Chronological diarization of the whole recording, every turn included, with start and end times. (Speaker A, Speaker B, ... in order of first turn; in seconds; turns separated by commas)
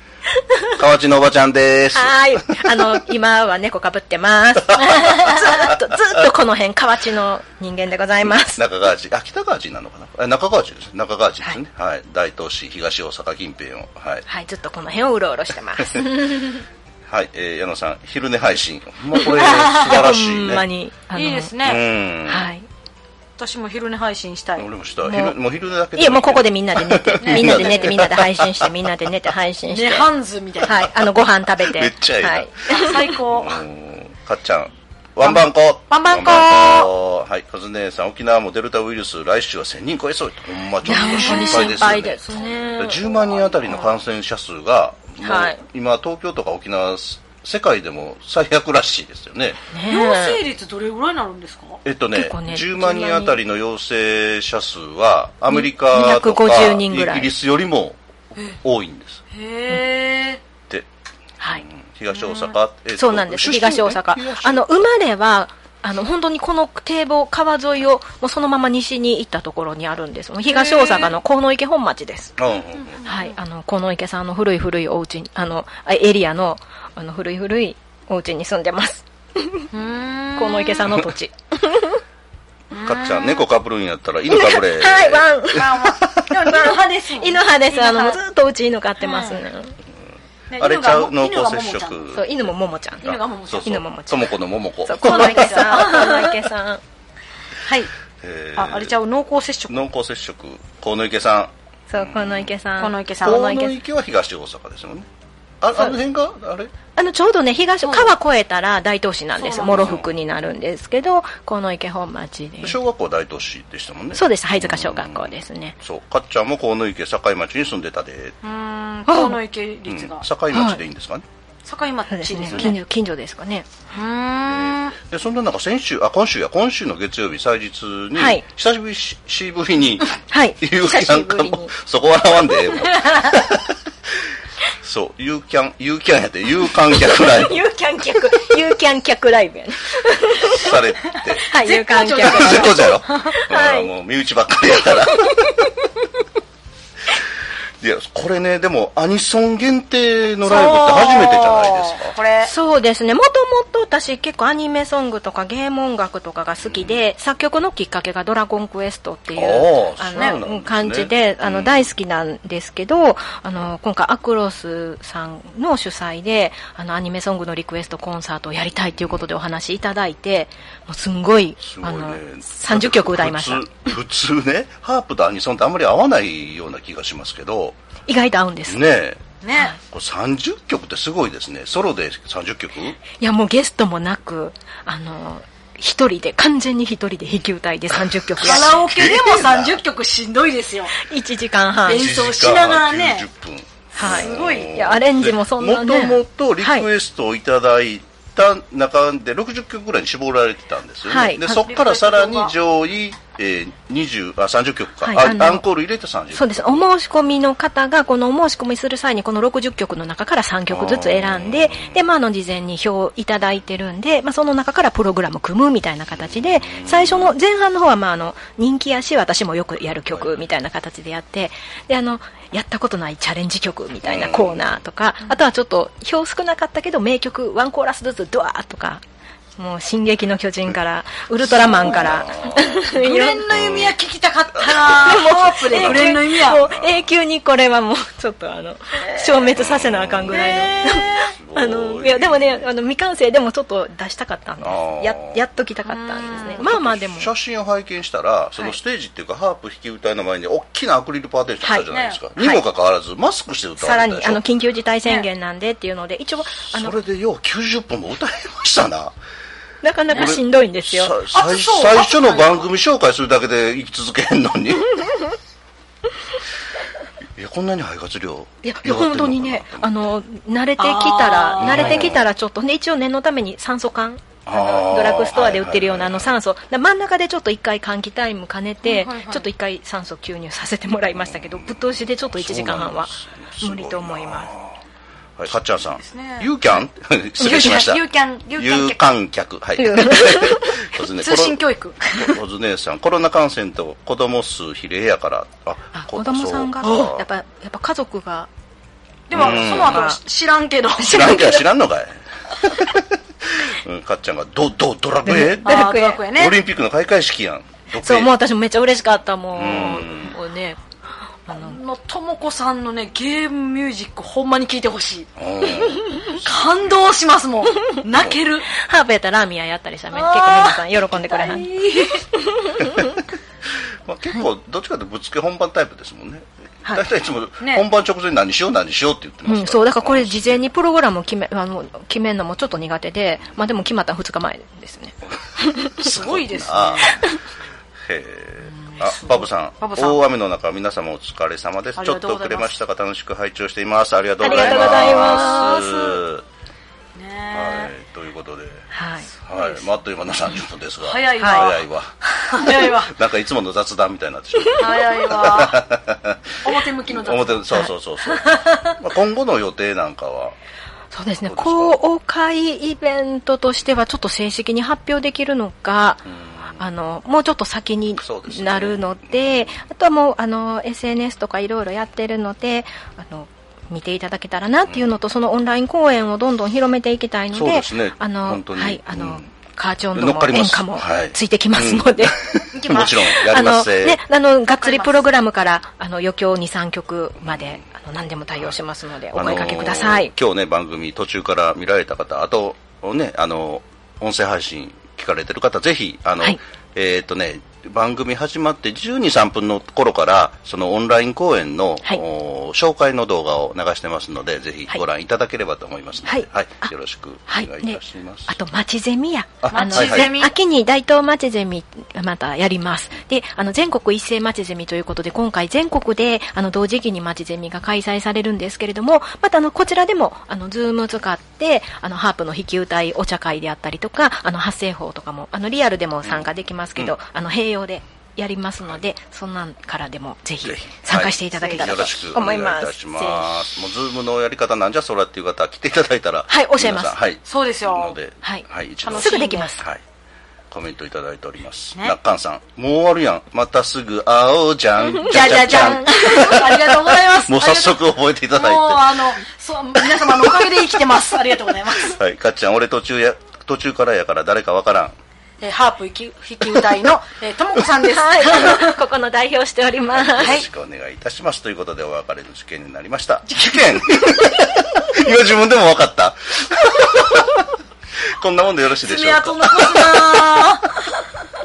Speaker A: 0.8-2.8, Speaker B: 1.9-8.6, Speaker A: 4.7-5.7, Speaker A: 8.2-14.2, Speaker B: 14.3-16.6, Speaker A: 17.1-20.7, Speaker B: 19.2-21.5, Speaker C: 19.4-20.0, Speaker C: 21.1-21.9, Speaker A: 21.6-22.5, Speaker B: 22.3-22.7, Speaker C: 23.4-24.7, Speaker A: 24.6-28.7, Speaker B: 25.0-25.4, Speaker B: 26.0-30.1, Speaker C: 27.2-27.9, Speaker C: 29.7-30.9, Speaker B: 30.6-33.1, Speaker A: 31.6-42.2, Speaker C: 32.7-33.6, Speaker C: 35.2-36.9, Speaker B: 40.8-43.0, Speaker C: 40.9-44.0, Speaker A: 42.8-49.6, Speaker B: 45.2-45.6, Speaker B: 49.7-50.4, Speaker C: 49.9-51.8, Speaker A: 51.9-58.0, Speaker B: 52.1-53.4, Speaker B: 55.5-57.3, Speaker A: 58.5-59.2, Speaker C: 59.3-60.4, Speaker B: 61.4-61.6, Speaker A: 61.6-64.7, Speaker C: 62.1-62.5, Speaker B: 63.0-72.3, Speaker C: 70.5-71.1, Speaker A: 72.4-73.0, Speaker C: 72.8-73.3, Speaker B: 73.0-79.7, Speaker C: 79.7-80.9, Speaker B: 80.3-82.0, Speaker C: 82.7-83.5, Speaker A: 82.8-86.2, Speaker B: 84.3-85.7, Speaker C: 85.5-88.2, Speaker B: 86.4-89.8, Speaker C: 89.0-89.4, Speaker C: 90.5-92.0, Speaker A: 90.6-92.3, Speaker B: 92.1-96.8, Speaker C: 93.0-93.8, Speaker A: 93.0-95.9, Speaker C: 95.0-96.4, Speaker C: 97.7-97.9, Speaker A: 98.2-98.9, Speaker C: 98.6-99.9, Speaker A: 99.7-102.5, Speaker B: 101.9-103.8, Speaker C: 102.8-103.6, Speaker A: 103.2-105.1, Speaker A: 105.6-106.7, Speaker B: 107.0-112.8, Speaker C: 107.8-108.2, Speaker C: 109.4-110.0, Speaker A: 109.6-110.1, Speaker A: 112.6-118.4, Speaker B: 114.1-115.8, Speaker C: 118.4-120.3, Speaker B: 119.1-119.4, Speaker A: 119.9-121.2, Speaker B: 120.5-120.8, Speaker C: 121.7-122.8, Speaker B: 122.1-123.7, Speaker A: 122.5-122.7, Speaker C: 123.9-125.0, Speaker A: 124.5-133.7, Speaker B: 128.1-128.4, Speaker B: 130.3-131.8, Speaker A: 134.8-137.6, Speaker B: 137.0-140.8, Speaker A: 140.3-145.7, Speaker B: 141.4-143.9, Speaker C: 142.0-142.8, Speaker B: 145.1-145.4, Speaker A: 147.8-152.2, Speaker C: 150.4-152.5, Speaker B: 152.4-173.7, Speaker A: 156.6-157.0, Speaker A: 159.3-161.9, Speaker A: 171.6-177.8, Speaker B: 178.1-178.8, Speaker A: 178.7-179.2, Speaker C: 179.4-179.8, Speaker A: 179.8-183.0, Speaker B: 183.2-188.7, Speaker A: 188.4-189.8, Speaker C: 188.4-191.0, Speaker B: 191.0-192.1, Speaker C: 191.9-193.3, Speaker A: 191.9-206.8, Speaker B: 193.9-196.9, Speaker C: 194.0-194.8, Speaker B: 201.1-201.7, Speaker C: 201.6-202.6, Speaker B: 205.0-205.7, Speaker B: 206.3-229.0, Speaker A: 210.7-212.0, Speaker A: 216.2-217.3, Speaker A: 220.1-220.4, Speaker A: 224.0-224.7, Speaker B: 229.6-233.5, Speaker A: 231.4-232.9, Speaker C: 231.8-232.0, Speaker C: 232.7-236.6, Speaker A: 233.5-234.0, Speaker A: 234.6-237.1, Speaker B: 234.9-247.3, Speaker A: 239.5-242.7, Speaker C: 240.3-241.2, Speaker A: 244.6-245.4, Speaker C: 245.9-246.6, Speaker A: 246.3-254.4, Speaker C: 251.9-252.2, Speaker B: 252.4-252.6, Speaker B: 253.8-257.0, Speaker A: 256.7-259.1, Speaker B: 259.8-261.2, Speaker C: 260.1-260.4, Speaker A: 260.1-265.1, Speaker C: 261.3-262.7, Speaker A: 267.4-269.9, Speaker B: 268.6-284.5, Speaker C: 270.8-272.2, Speaker A: 271.6-272.2, Speaker A: 274.5-276.3, Speaker C: 278.8-279.5, Speaker A: 281.2-284.8, Speaker A: 285.4-297.2, Speaker C: 286.0-286.6, Speaker C: 287.4-289.1, Speaker B: 289.8-290.9, Speaker C: 291.2-292.2, Speaker B: 295.9-298.5, Speaker C: 299.3-301.6, Speaker A: 299.3-300.1, Speaker B: 299.4-300.2, Speaker A: 301.0-305.8, Speaker B: 301.0-301.6, Speaker B: 305.2-306.2, Speaker C: 305.6-306.6, Speaker A: 306.3-308.3, Speaker B: 308.0-310.8, Speaker A: 309.6-310.3, Speaker B: 311.5-311.8, Speaker C: 311.5-315.3, Speaker A: 315.4-316.9, Speaker C: 316.2-318.7, Speaker A: 318.1-318.4, Speaker B: 318.7-323.2, Speaker C: 320.1-322.2, Speaker A: 324.1-330.6, Speaker B: 329.5-336.0, Speaker A: 335.9-337.2, Speaker C: 336.0-337.2, Speaker A: 338.0-346.4, Speaker C: 338.6-340.2, Speaker C: 342.0-342.8, Speaker B: 344.4-345.7, Speaker C: 344.4-346.2, Speaker C: 347.2-347.9, Speaker A: 347.5-348.9, Speaker B: 348.9-349.3, Speaker A: 349.5-360.6, Speaker C: 349.5-349.9, Speaker C: 351.0-351.9, Speaker B: 351.4-351.7, Speaker C: 352.5-353.2, Speaker C: 354.8-355.8, Speaker C: 356.6-357.7, Speaker B: 357.7-359.0, Speaker B: 361.1-366.2, Speaker A: 361.5-362.0, Speaker A: 366.3-366.8, Speaker B: 366.8-390.3, Speaker A: 368.2-369.8, Speaker A: 374.9-375.1, Speaker A: 377.5-379.5, Speaker A: 380.2-384.2, Speaker C: 382.7-383.3, Speaker C: 384.7-385.2, Speaker A: 387.4-387.8, Speaker A: 389.3-408.6, Speaker B: 406.2-406.9, Speaker B: 407.5-433.6, Speaker A: 409.6-410.3, Speaker C: 409.7-410.5, Speaker A: 426.2-427.1, Speaker A: 430.6-440.0, Speaker C: 431.6-432.1, Speaker B: 436.5-437.2, Speaker C: 437.4-438.2, Speaker B: 438.4-439.9, Speaker C: 439.0-439.7, Speaker A: 440.7-449.2, Speaker B: 445.1-446.6, Speaker C: 445.2-452.2, Speaker A: 450.3-450.7, Speaker A: 452.0-455.1, Speaker C: 455.6-459.0, Speaker B: 458.1-460.6, Speaker A: 460.2-467.7, Speaker C: 460.4-460.7, Speaker C: 463.5-463.8, Speaker A: 468.4-470.9, Speaker C: 469.0-470.9